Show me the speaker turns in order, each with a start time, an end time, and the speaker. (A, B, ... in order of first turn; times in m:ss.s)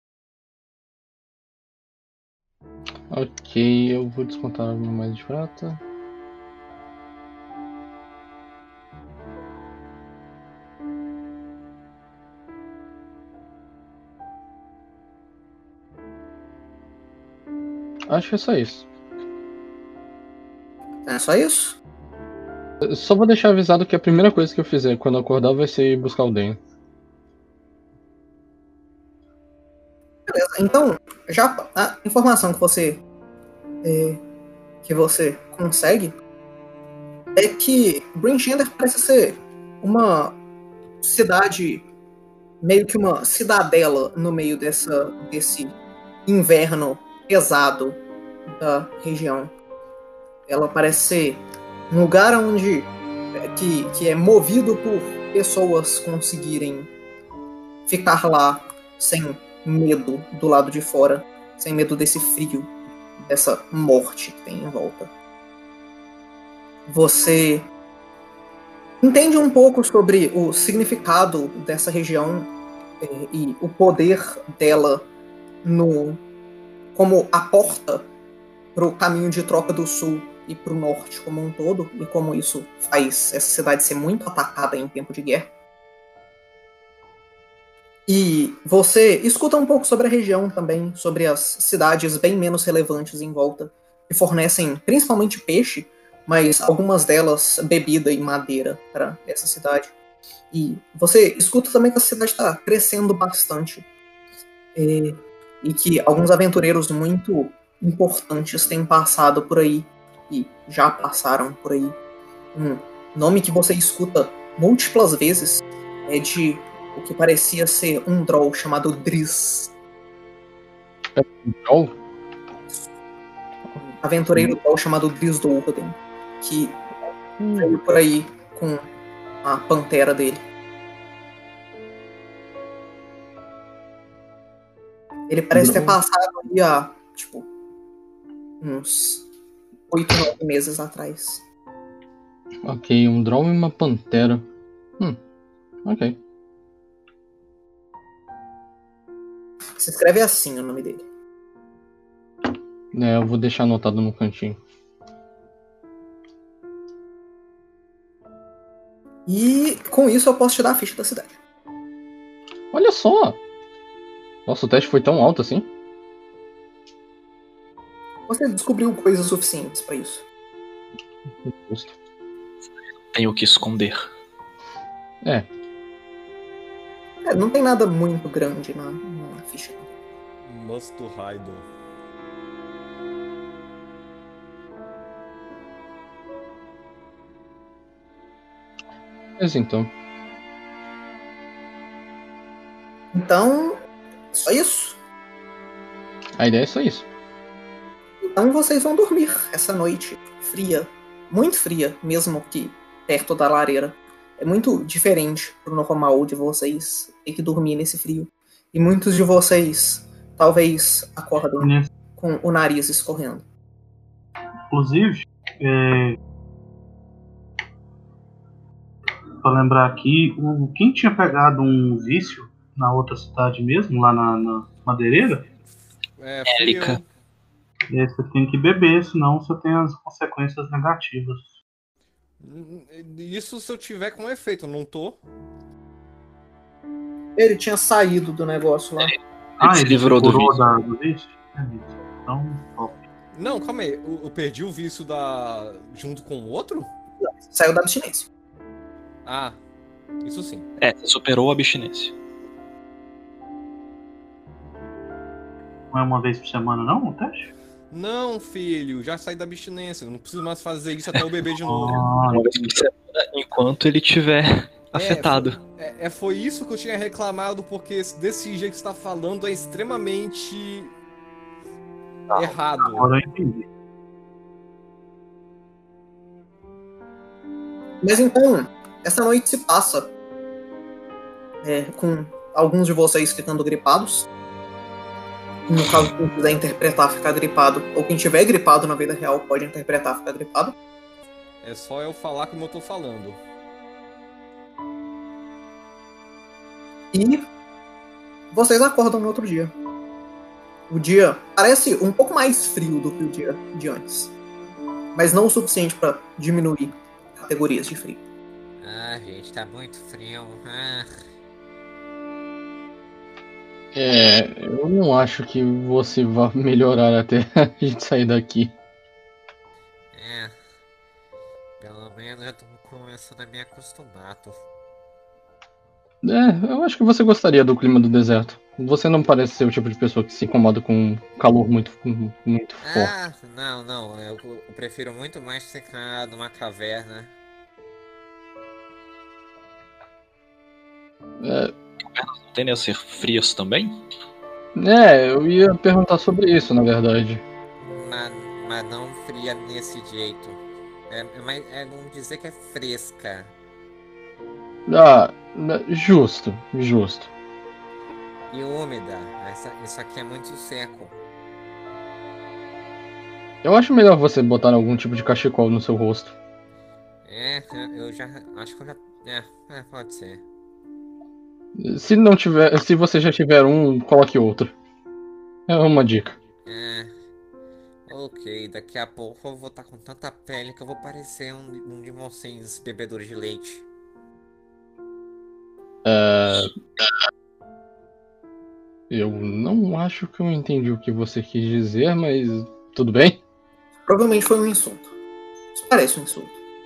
0:03.1-0:05.8 A
0:18.1-0:18.8 A
0:21.1-0:21.8 B
0:22.8-0:26.6 A
0:30.3-0:33.0 B
0:33.8-0:34.2 B
0:34.8-0:36.1 B
0:37.3-0:40.4 B
0:41.0-0:41.8 B
0:42.6-0:45.7 B
0:46.2-0:49.5 B
0:50.5-0:56.9 B
0:57.9-1:05.1 B
1:06.9-1:07.7 B
1:09.0-1:12.5 B
1:13.0-1:15.0 B
1:15.6-1:16.2 B
1:16.9-1:18.0 B
1:18.7-1:25.5 B
1:28.1-1:39.9 B
1:40.5-1:43.8 B
1:44.7-1:52.0 B
1:52.5-1:59.7 B
2:01.2-2:01.9 A
2:03.8-2:06.8 B
2:07.4-2:07.7 A
2:07.6-2:08.9 B
2:09.4-2:10.4 B
2:15.3-2:17.4 B
2:15.5-2:16.0 A
2:18.6-2:19.2 B
2:19.9-2:21.4 B
2:22.6-2:24.4 A
2:25.8-2:26.2 A
2:29.8-2:31.0 B
2:32.9-2:34.6 A
2:39.3-2:41.4 B
2:42.7-2:43.4 A
2:44.4-2:45.7 A
2:48.3-2:50.2 B
2:51.4-2:51.9 A
2:53.1-2:54.1 C
2:57.2-2:59.9 B
3:00.4-3:01.7 D
3:09.4-3:09.9 A
3:13.1-3:13.8 B
3:14.3-3:15.0 B
3:16.4-3:17.0 A
3:18.2-3:33.4 B
3:31.6-3:31.9 E
3:34.7-3:36.2 E
3:39.4-3:45.4 E
3:46.2-3:47.1 D
3:46.4-3:47.0 C
3:47.9-3:51.6 E
3:52.4-3:55.2 D
3:57.4-3:59.1 B
3:59.6-4:00.6 C
3:59.6-4:03.0 E
4:03.3-4:06.9 D
4:07.2-4:08.3 B
4:09.2-4:09.6 D
4:10.2-4:10.7 D
4:10.8-4:12.1 C
4:15.9-4:17.5 E
4:17.9-4:22.1 D
4:21.6-4:22.7 E
4:22.3-4:25.6 C
4:24.9-4:30.9 D
4:32.3-4:33.1 D
4:32.8-4:33.6 E
4:38.0-4:40.1 B
4:41.6-4:44.3 B
4:45.7-4:50.7 B
4:51.6-4:53.4 D
4:57.1-4:57.4 B
4:58.5-4:59.7 B
5:00.9-5:04.3 B
5:05.1-5:08.2 B
5:08.8-5:11.2 F
5:13.9-5:18.7 A
5:20.1-5:20.5 F
5:21.8-5:24.6 F
5:26.2-5:33.1 A
5:32.8-5:37.3 F
5:41.4-5:41.7 A
5:42.1-5:44.0 C
5:44.8-5:47.4 A
5:47.9-5:53.5 F
5:54.9-5:57.3 A
5:58.5-6:01.2 F
6:03.6-6:06.3 A
6:07.2-6:10.4 F
6:11.8-6:14.7 A
6:15.7-6:16.4 A
6:16.6-6:17.1 F
6:18.1-6:23.8 F
6:26.0-6:26.7 A
6:29.1-6:33.4 A
6:34.1-6:35.1 B
6:35.7-6:36.6 B